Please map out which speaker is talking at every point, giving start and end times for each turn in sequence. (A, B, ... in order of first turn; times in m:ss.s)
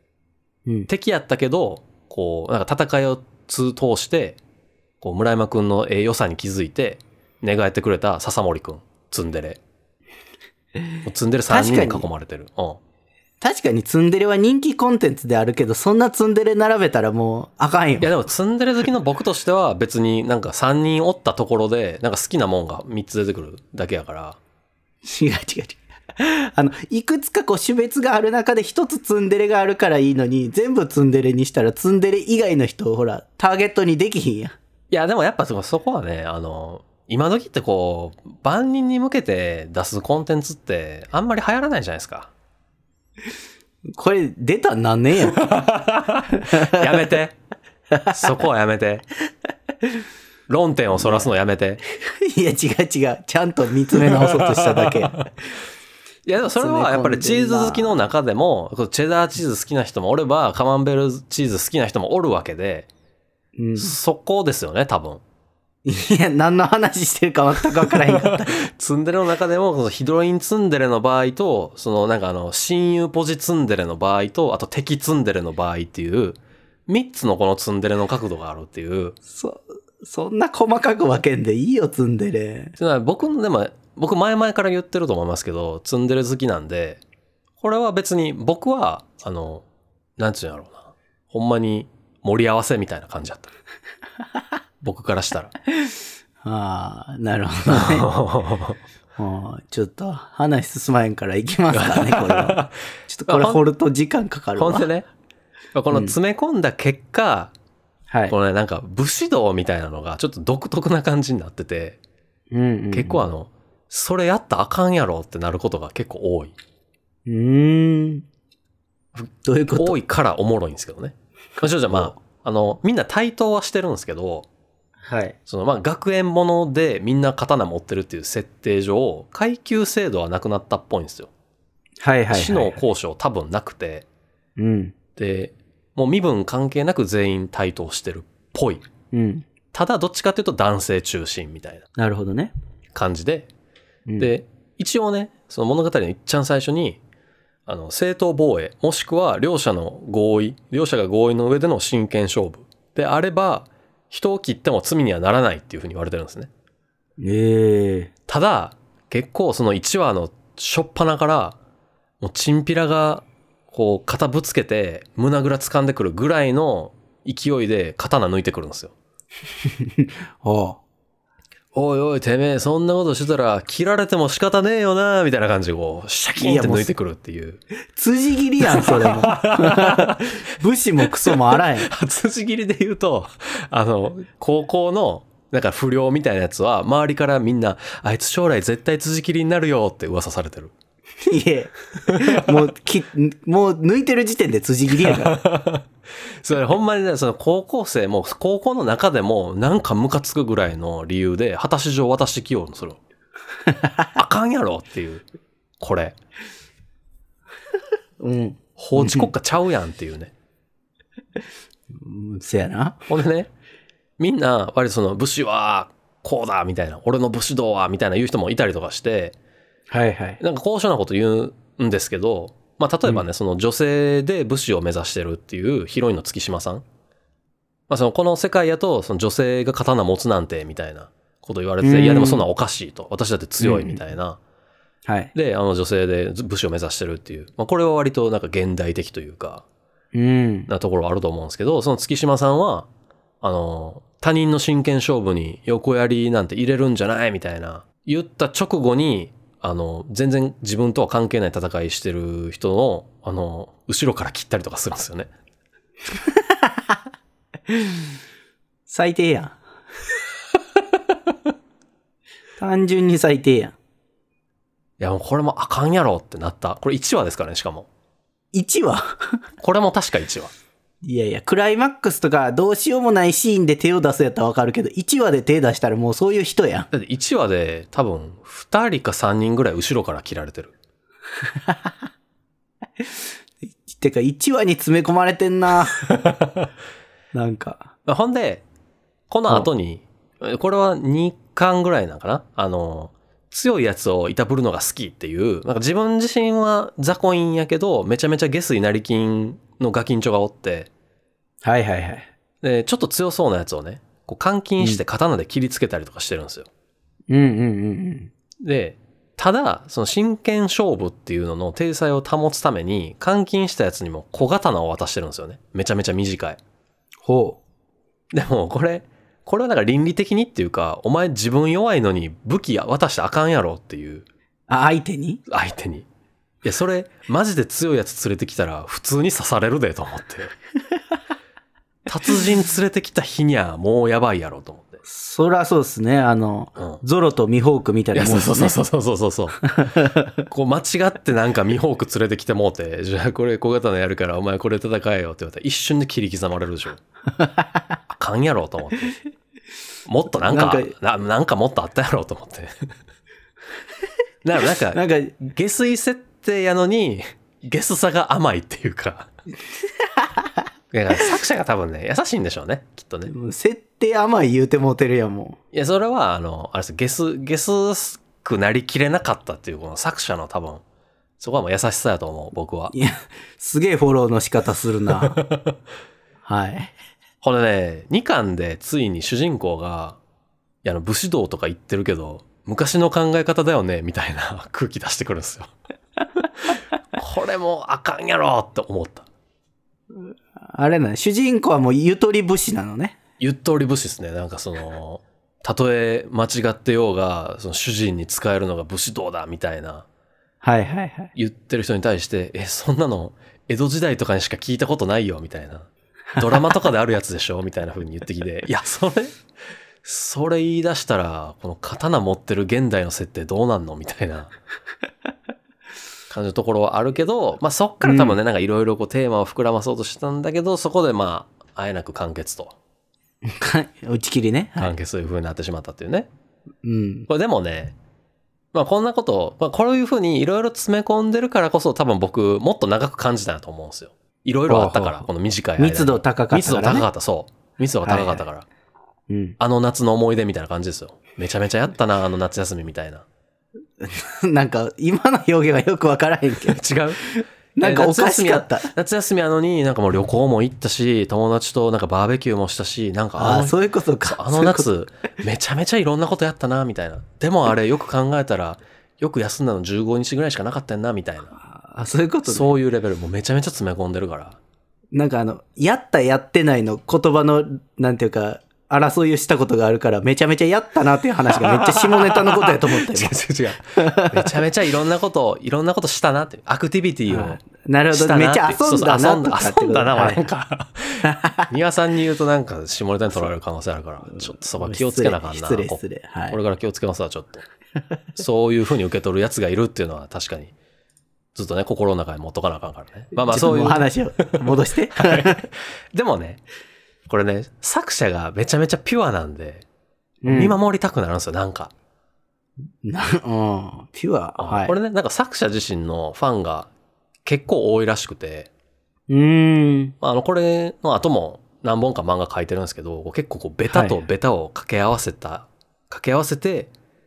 0:00.9-0:04.4 A
0:05.0-0:09.6 A
0:11.0-0:12.8 A
0:11.5-0:12.1 B
0:13.4-0:18.1 B
0:18.0-0:24.4 A
0:25.0-0:34.5 B
0:34.9-0:42.3 A
0:43.9-0:45.5 B
0:45.3-0:47.4 A
0:46.3-0:47.1 B
0:47.9-0:48.2 B
0:48.1-0:49.0 A
0:50.5-0:51.8 A
0:51.0-0:51.3 B
0:52.0-0:55.3 B
0:54.0-0:55.3 A
0:56.2-1:02.9 A
0:56.6-0:57.9 B
1:03.6-1:03.9 B
1:03.8-1:05.2 A
1:05.8-1:08.6 B
1:07.9-1:19.2 A
1:19.3-1:22.8 B
1:22.8-1:27.0 A
1:27.6-1:29.6 A
1:30.2-1:33.5 A
1:34.8-1:35.5 A
1:35.7-1:38.1 B
1:37.7-1:38.8 A
1:39.2-1:44.9 B
1:41.7-1:43.6 A
1:44.6-1:45.1 A
1:45.7-1:47.5 A
1:45.9-1:46.2 B
1:48.3-1:52.0 A
1:52.5-1:53.2 B
1:52.9-1:56.5 A
1:57.2-1:58.2 B
1:59.2-2:04.5 A
1:59.4-2:00.0 B
2:01.9-2:02.1 B
2:05.0-2:05.4 B
2:05.5-2:11.3 A
2:12.0-2:12.8 B
2:12.3-2:14.0 A
2:14.6-2:14.9 B
2:15.2-2:18.8 A
2:19.1-2:19.4 B
2:19.7-2:21.8 A
2:22.0-2:22.5 B
2:22.9-2:23.5 A
2:24.2-2:27.0 A
2:27.7-2:36.5 A
2:37.2-2:38.1 B
2:38.3-2:41.6 A
2:42.2-2:48.9 A
2:49.6-2:50.8 B
2:51.7-2:57.6 A
2:56.4-2:56.9 B
2:57.9-3:01.9 B
2:58.6-3:00.3 A
3:01.1-3:10.7 A
3:11.2-3:15.4 B
3:12.1-3:12.5 A
3:15.0-3:15.8 A
3:16.4-3:23.0 A
3:23.7-3:24.0 B
3:24.1-3:25.2 A
3:25.8-3:26.2 A
3:28.2-3:29.3 B
3:28.8-3:30.3 A
3:31.9-3:33.0 B
3:33.1-3:33.5 A
3:34.2-3:39.3 A
3:39.9-3:40.4 B
3:40.4-3:46.8 A
3:47.9-3:54.4 A
3:51.8-3:52.4 B
3:53.6-3:54.0 B
3:55.0-3:55.3 B
3:55.3-3:59.6 A
4:00.1-4:00.7 B
4:00.7-4:02.9 A
4:03.4-4:15.3 A
4:16.2-4:17.0 B
4:17.7-4:18.1 B
4:18.9-4:19.6 B
4:22.6-4:23.7 B
4:25.0-4:27.9 A
4:28.5-4:29.4 B
4:29.6-4:30.5 A
4:31.0-4:36.9 B
4:36.9-4:40.7 A
4:41.5-4:41.9 B
4:43.7-4:46.1 B
4:46.1-4:46.7 A
4:47.3-4:47.9 B
4:48.0-4:48.6 A
4:49.3-5:00.9 A
5:01.6-5:02.3 B
5:02.6-5:06.7 A
5:07.3-5:08.3 B
5:08.6-5:16.6 A
5:17.2-5:17.6 B
5:18.3-5:24.2 A
5:24.7-5:25.4 B
5:25.5-5:26.1 A
5:26.6-5:30.5 A
5:32.1-5:35.0 A
5:35.0-5:38.8 B
5:36.8-5:37.0 A
5:38.1-5:47.0 A
5:39.7-5:40.3 B
5:47.4-5:47.8 B
5:48.2-5:49.2 A
5:50.0-5:52.7 A
5:50.4-5:50.9 B
5:54.4-5:59.3 A
5:54.9-5:55.3 B
6:00.0-6:00.4 B
6:00.9-6:03.3 A
6:03.3-6:05.6 B
6:05.7-6:10.8 A
6:11.4-6:12.9 A
6:12.9-6:15.4 B
6:15.1-6:15.8 A
6:16.4-6:16.9 B
6:17.4-6:20.2 A
6:20.8-6:25.7 A
6:26.7-6:29.3 A
6:30.2-6:33.2 B
6:33.4-6:40.0 A
6:40.6-6:41.3 B
6:41.3-6:49.4 A
6:50.0-6:54.5 A
6:56.3-7:02.7 A
6:58.0-6:58.4 B
7:03.4-7:04.9 B
7:04.8-7:06.3 A
7:06.8-7:07.3 B
7:07.3-7:07.9 A
7:08.7-7:18.7 A
7:14.7-7:15.3 B
7:15.8-7:17.1 B
7:18.0-7:18.4 B
7:19.3-7:19.6 B
7:19.6-7:23.2 A
7:24.0-7:28.9 B
7:26.7-7:27.2 A
7:27.8-7:41.5 A
7:33.4-7:34.9 B
7:41.7-7:42.7 B
7:42.4-7:44.6 A
7:45.1-7:53.4 B
7:51.5-8:07.6 A
7:54.0-7:54.5 B
7:57.3-8:00.4 B
8:01.2-8:01.7 B
8:04.3-8:06.6 B
8:08.3-8:10.7 A
8:11.5-8:16.6 A
8:13.4-8:15.6 B
8:17.3-8:19.8 A
8:20.4-8:20.8 B
8:20.4-8:21.9 A
8:23.0-8:24.9 B
8:24.6-8:26.9 A
8:27.4-8:28.7 A
8:29.3-8:30.1 B
8:30.2-8:36.9 A
8:33.9-8:34.2 B